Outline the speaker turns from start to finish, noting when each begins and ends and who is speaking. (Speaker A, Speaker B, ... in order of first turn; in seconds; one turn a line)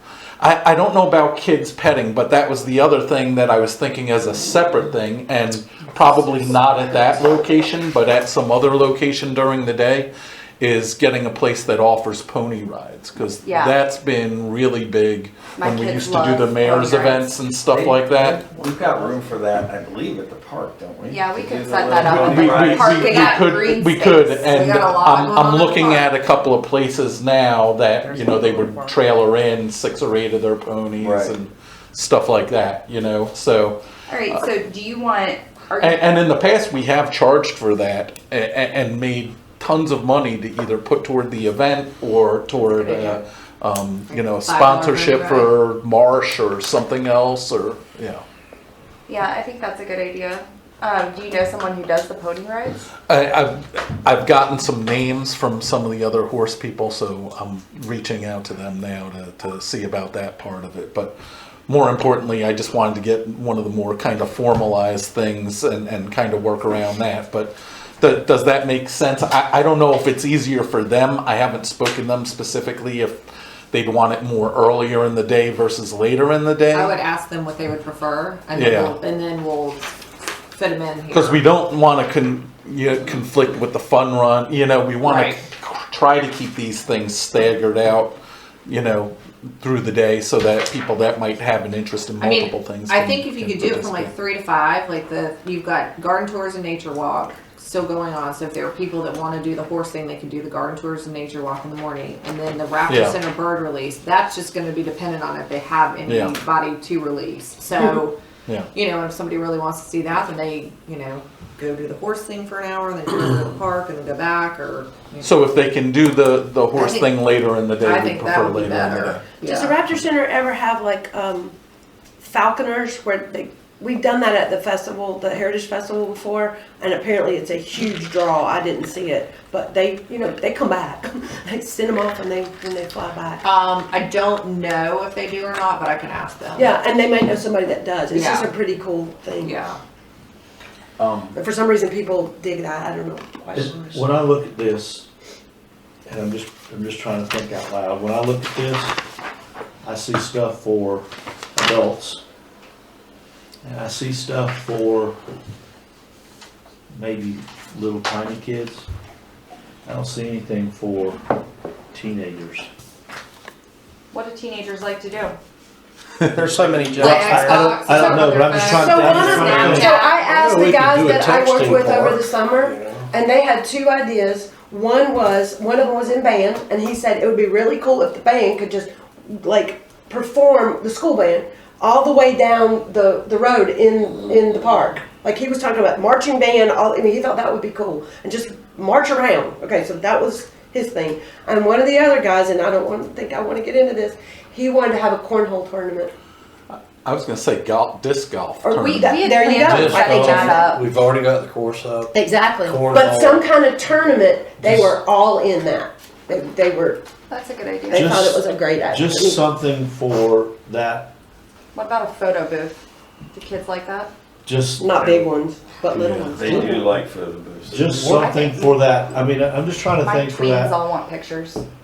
Speaker A: 0.4-18.4
Speaker B: 13.4-13.8
Speaker B: 15.6-17.4
Speaker C: 17.7-23.3
Speaker B: 21.1-24.6
Speaker A: 21.9-34.4
Speaker D: 24.4-26.1
Speaker D: 28.0-29.0
Speaker C: 31.0-31.4
Speaker B: 34.1-36.2
Speaker A: 35.8-48.2
Speaker B: 42.8-43.2
Speaker D: 44.1-45.6
Speaker B: 49.1-52.8
Speaker A: 53.1-61.1
Speaker A: 61.7-73.1
Speaker A: 73.7-76.9
Speaker D: 76.7-79.9
Speaker A: 78.5-79.0
Speaker D: 80.5-81.4
Speaker A: 81.1-94.1
Speaker D: 85.0-85.4
Speaker D: 92.2-108.2
Speaker A: 102.9-103.2
Speaker A: 106.1-106.3
Speaker D: 108.7-115.4
Speaker A: 115.2-119.4
Speaker D: 116.7-117.1
Speaker D: 117.8-119.8
Speaker E: 119.4-121.5
Speaker E: 122.2-133.4
Speaker D: 133.4-136.7
Speaker E: 136.5-139.6
Speaker D: 138.1-138.5
Speaker D: 139.4-139.8
Speaker A: 141.0-141.3
Speaker E: 141.3-144.0
Speaker F: 143.5-145.1
Speaker F: 146.1-149.0
Speaker F: 149.8-152.2
Speaker F: 153.6-155.2
Speaker F: 156.9-158.9
Speaker F: 159.8-161.2
Speaker F: 161.9-162.7
Speaker B: 164.1-165.3
Speaker G: 166.3-167.4
Speaker C: 166.3-168.3
Speaker D: 166.9-170.2
Speaker F: 167.0-170.0
Speaker E: 168.6-196.1
Speaker G: 170.2-173.1
Speaker A: 196.7-200.5
Speaker E: 198.6-200.6
Speaker B: 198.8-200.8
Speaker G: 199.7-203.5
Speaker E: 202.9-207.0
Speaker F: 204.6-204.9
Speaker B: 207.3-208.2
Speaker E: 207.9-209.4
Speaker F: 207.9-211.1
Speaker B: 211.7-212.8
Speaker B: 213.3-214.1
Speaker F: 214.4-215.3
Speaker E: 214.8-216.9
Speaker F: 215.9-216.7
Speaker C: 216.2-218.1
Speaker F: 217.7-220.8
Speaker B: 218.0-218.7
Speaker B: 220.0-221.6